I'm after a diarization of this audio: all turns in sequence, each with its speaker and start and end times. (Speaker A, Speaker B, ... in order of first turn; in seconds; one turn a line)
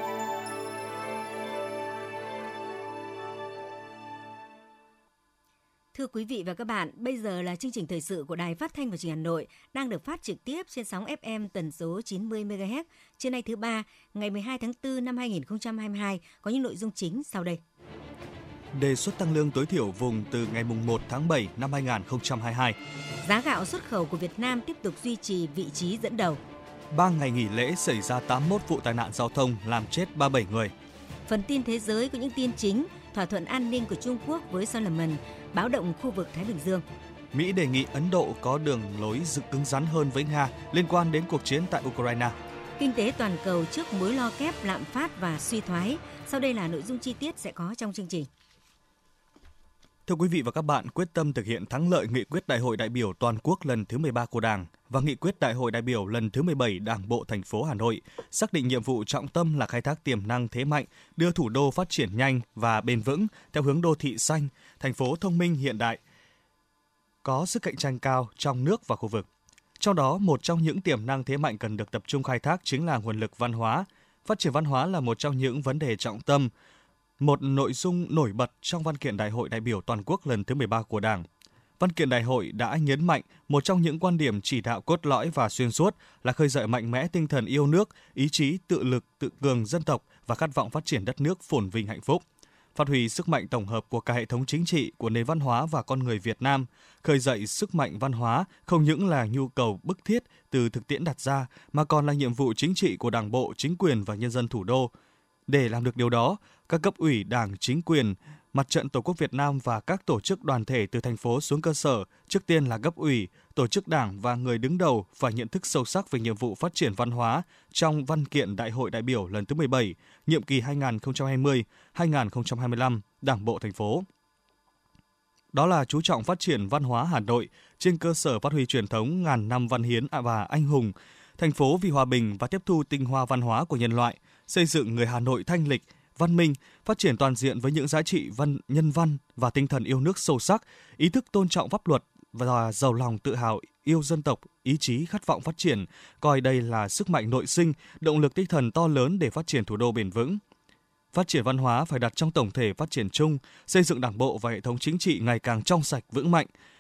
Speaker A: 5.9-17.6
Speaker B: 18.8-22.8
Speaker A: 23.2-26.4
Speaker B: 26.9-30.7
Speaker A: 31.3-36.9
Speaker B: 37.3-42.4
Speaker A: 42.8-48.3
Speaker B: 50.1-66.0
Speaker B: 67.2-69.3
Speaker B: 69.8-76.5
Speaker B: 77.2-81.3
Speaker B: 81.8-92.2
Speaker B: 92.8-104.9
Speaker B: 105.5-124.1
Speaker B: 125.5-150.4
Speaker B: 151.1-156.5